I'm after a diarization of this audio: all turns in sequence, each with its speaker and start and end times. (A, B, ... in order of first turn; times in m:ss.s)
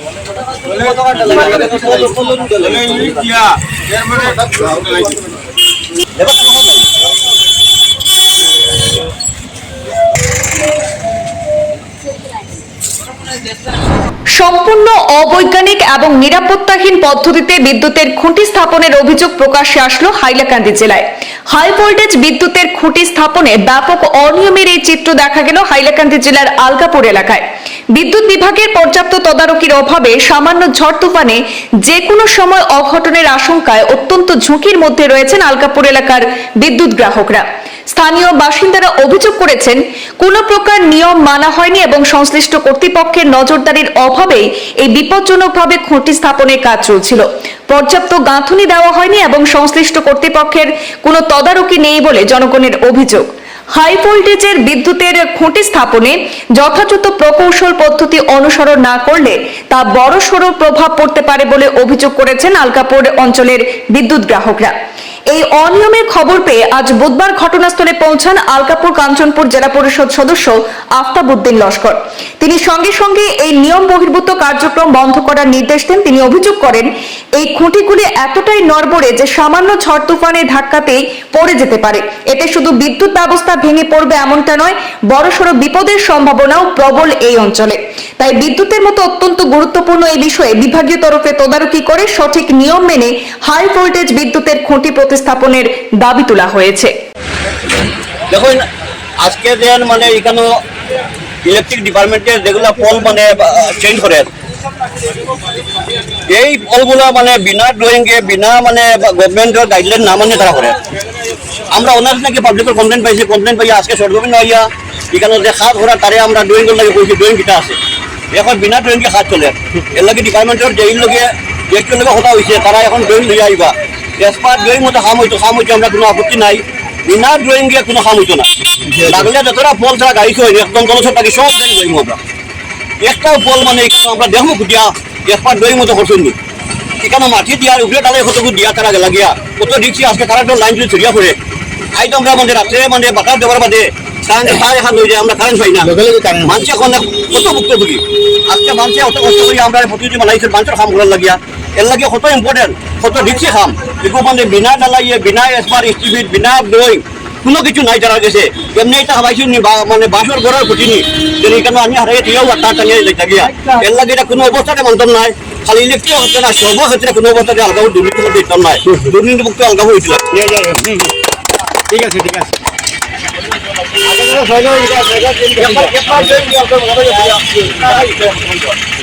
0:00.6-0:03.2 A
0:00.6-0:05.2 B
0:06.2-0:06.9 A
0:14.4-1:04.7 C
1:05.3-1:36.9 C
1:38.3-1:38.6 A
1:39.2-1:40.5 A
1:41.4-1:44.3 A
1:46.3-1:50.8 A
1:51.7-1:57.8 A
1:58.3-2:12.2 A
2:13.0-2:16.3 A
2:17.0-2:21.4 A
2:21.9-2:50.4 A
2:50.4-2:51.1 B
2:51.9-2:52.5 B
2:54.0-2:55.9 B
2:55.6-2:58.8 A